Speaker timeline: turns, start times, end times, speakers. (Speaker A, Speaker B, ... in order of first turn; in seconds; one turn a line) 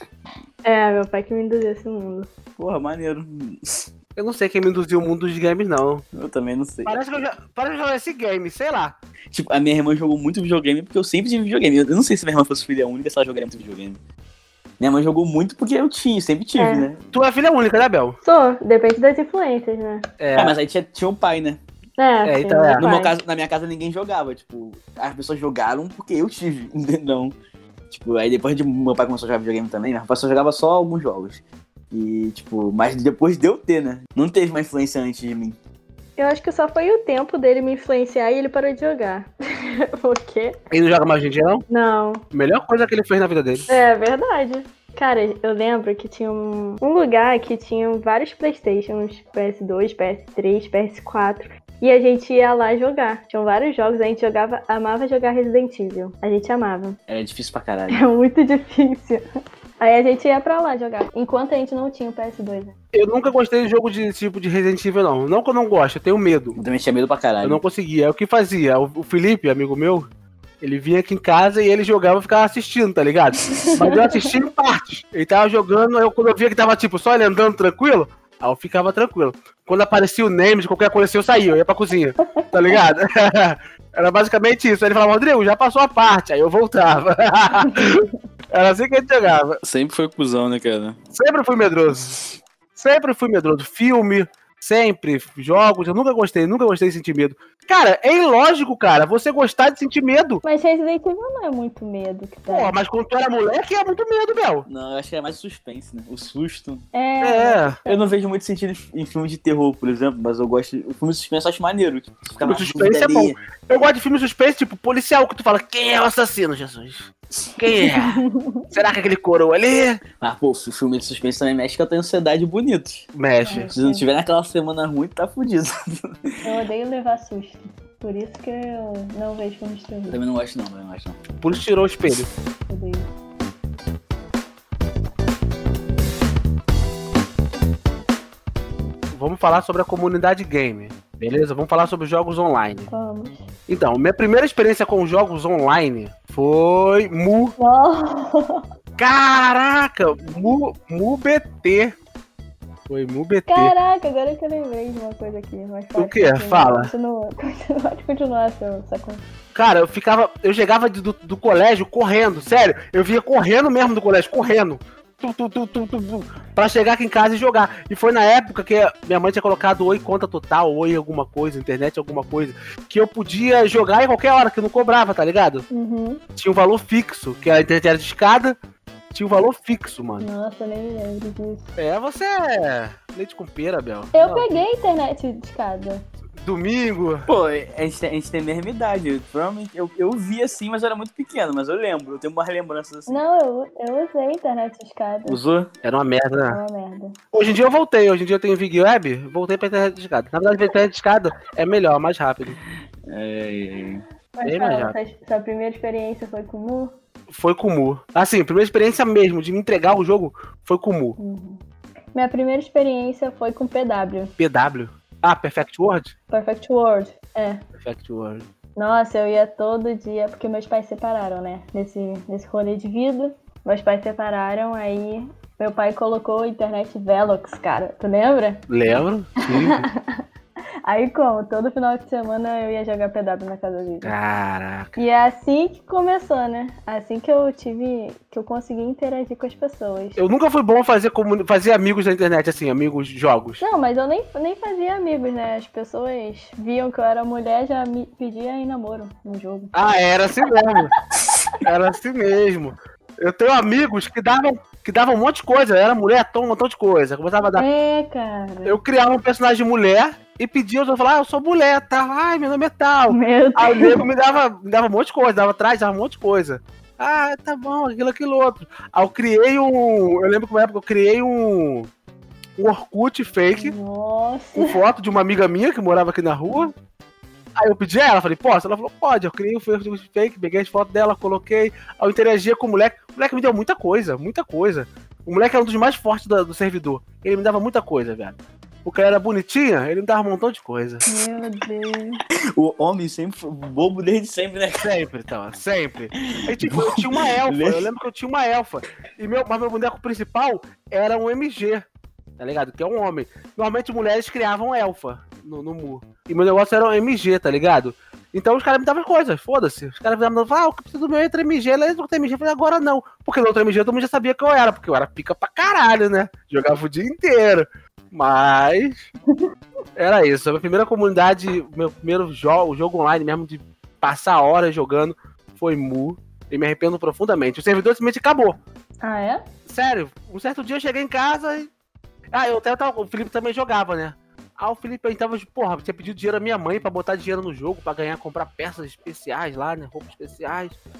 Speaker A: 0.6-2.3
Speaker B: 2.6-3.9
Speaker C: 4.2-6.0
Speaker B: 6.1-7.0
Speaker C: 6.8-8.9
Speaker B: 9.3-14.0
Speaker B: 14.8-17.0
Speaker A: 16.6-16.9
Speaker C: 17.1-18.2
Speaker A: 18.2-20.0
Speaker C: 20.2-20.6
Speaker B: 20.3-21.6
Speaker A: 22.0-23.1
Speaker C: 22.2-22.9
Speaker B: 22.8-27.3
Speaker B: 27.9-35.6
Speaker A: 36.2-40.6
Speaker C: 40.7-41.6
Speaker A: 41.7-42.2
Speaker C: 42.3-43.7
Speaker A: 43.7-57.0
Speaker B: 57.1-58.0
Speaker A: 57.9-59.2
Speaker A: 59.8-62.7
Speaker C: 62.9-66.6
Speaker B: 66.5-67.6
Speaker C: 67.4-70.1
Speaker C: 70.6-89.6
Speaker A: 73.5-74.2
Speaker B: 89.6-91.0
Speaker C: 91.1-92.2
Speaker C: 92.7-100.4
Speaker A: 100.4-102.7
Speaker C: 102.5-104.7
Speaker B: 104.7-106.8
Speaker A: 106.9-108.1
Speaker C: 107.2-107.8
Speaker B: 107.8-113.4
Speaker C: 112.4-120.0
Speaker A: 118.0-118.7
Speaker B: 120.2-123.1
Speaker C: 123.1-123.7
Speaker A: 123.4-124.0
Speaker B: 123.7-126.4
Speaker A: 126.4-130.2
Speaker B: 130.1-131.2
Speaker C: 131.4-132.3
Speaker A: 132.7-133.1
Speaker C: 139.1-142.9
Speaker A: 142.9-143.4
Speaker C: 143.7-147.5
Speaker A: 147.6-148.6
Speaker C: 149.0-151.9
Speaker C: 152.9-153.7
Speaker A: 153.5-159.2
Speaker C: 155.9-156.9
Speaker C: 159.5-175.7
Speaker A: 175.7-176.2
Speaker C: 176.3-178.6
Speaker C: 179.1-180.3
Speaker A: 180.2-181.7
Speaker C: 181.8-184.6
Speaker A: 184.1-186.0
Speaker C: 186.4-187.3
Speaker B: 187.3-193.2
Speaker A: 193.1-195.4
Speaker B: 195.3-195.7
Speaker C: 195.8-196.6
Speaker A: 196.5-197.2
Speaker C: 197.3-202.6
Speaker B: 203.1-204.0
Speaker A: 204.4-206.9
Speaker C: 204.4-204.9
Speaker C: 207.3-211.2
Speaker A: 211.2-211.6
Speaker A: 212.1-214.3
Speaker C: 214.4-216.1
Speaker A: 216.3-217.6
Speaker C: 217.8-218.5
Speaker A: 218.8-228.6
Speaker C: 228.7-229.9
Speaker A: 229.5-230.1
Speaker A: 230.8-234.1
Speaker C: 234.0-234.9
Speaker A: 235.0-240.2
Speaker C: 240.2-243.6
Speaker A: 243.6-249.7
Speaker C: 249.7-250.9
Speaker A: 251.3-251.6
Speaker C: 251.6-257.6
Speaker A: 257.6-258.8
Speaker C: 258.6-271.9
Speaker A: 263.1-264.0
Speaker C: 272.6-273.8
Speaker A: 273.5-274.8
Speaker C: 274.5-276.7
Speaker C: 277.6-291.0
Speaker A: 291.0-292.2
Speaker B: 292.6-294.9
Speaker C: 294.8-301.8
Speaker B: 296.4-297.9
Speaker C: 302.4-319.1
Speaker C: 319.9-328.6
Speaker A: 329.0-329.4
Speaker C: 329.7-331.7
Speaker C: 332.3-340.8